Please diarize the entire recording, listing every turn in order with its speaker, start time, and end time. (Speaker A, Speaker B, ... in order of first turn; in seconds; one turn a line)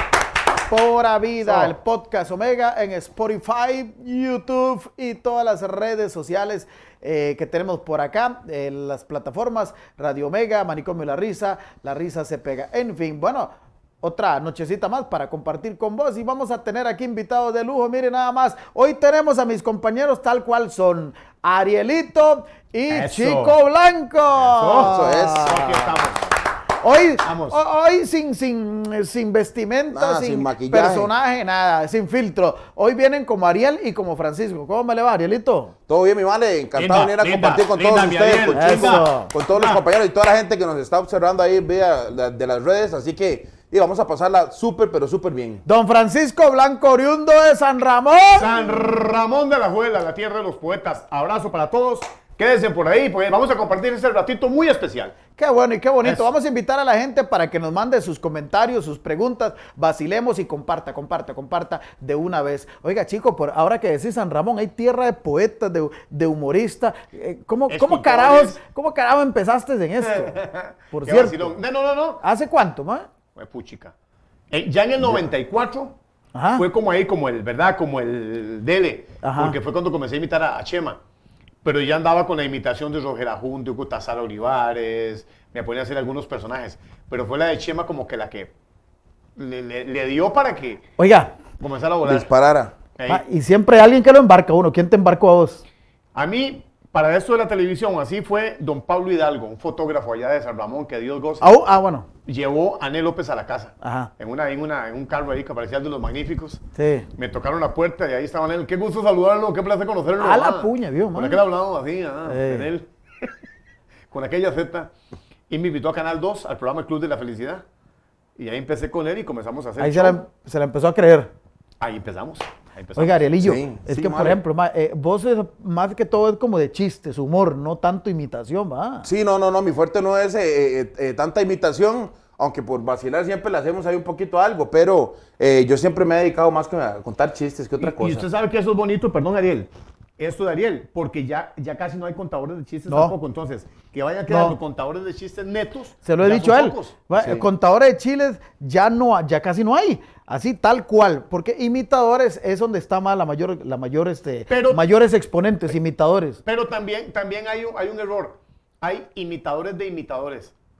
Speaker A: 0.7-13.5
Speaker A: 14.0-25.9
Speaker B: 22.9-23.6
Speaker B: 24.4-26.4
Speaker C: 24.8-25.8
Speaker A: 26.8-35.7
Speaker B: 27.2-27.6
Speaker C: 29.9-31.1
Speaker C: 35.9-45.6
Speaker B: 36.8-39.8
Speaker A: 38.5-39.3
Speaker A: 45.6-48.7
Speaker B: 48.4-55.1
Speaker A: 55.4-70.3
Speaker B: 67.7-68.5
Speaker B: 70.0-72.2
Speaker A: 70.9-71.6
Speaker A: 72.2-73.1
Speaker B: 73.3-73.9
Speaker B: 74.5-76.0
Speaker A: 76.3-76.7
Speaker B: 76.5-81.0
Speaker A: 79.2-79.5
Speaker B: 81.6-88.5
Speaker B: 89.4-90.8
Speaker A: 91.0-91.3
Speaker B: 91.6-92.3
Speaker C: 92.0-92.7
Speaker B: 93.0-93.2
Speaker A: 93.1-95.6
Speaker B: 96.1-101.4
Speaker A: 101.4-102.1
Speaker B: 102.2-106.6
Speaker A: 103.8-104.1
Speaker A: 106.8-107.1
Speaker B: 107.2-113.3
Speaker A: 110.2-111.4
Speaker A: 112.3-112.7
Speaker B: 114.1-114.9
Speaker B: 115.5-117.6
Speaker B: 118.4-120.2
Speaker A: 119.8-121.3
Speaker B: 121.8-123.3
Speaker A: 123.0-129.1
Speaker C: 123.4-124.4
Speaker C: 129.1-138.3
Speaker B: 137.8-146.9
Speaker A: 142.9-143.1
Speaker A: 144.3-144.6
Speaker A: 146.0-156.4
Speaker C: 147.1-147.5
Speaker B: 154.5-154.8
Speaker B: 156.4-160.5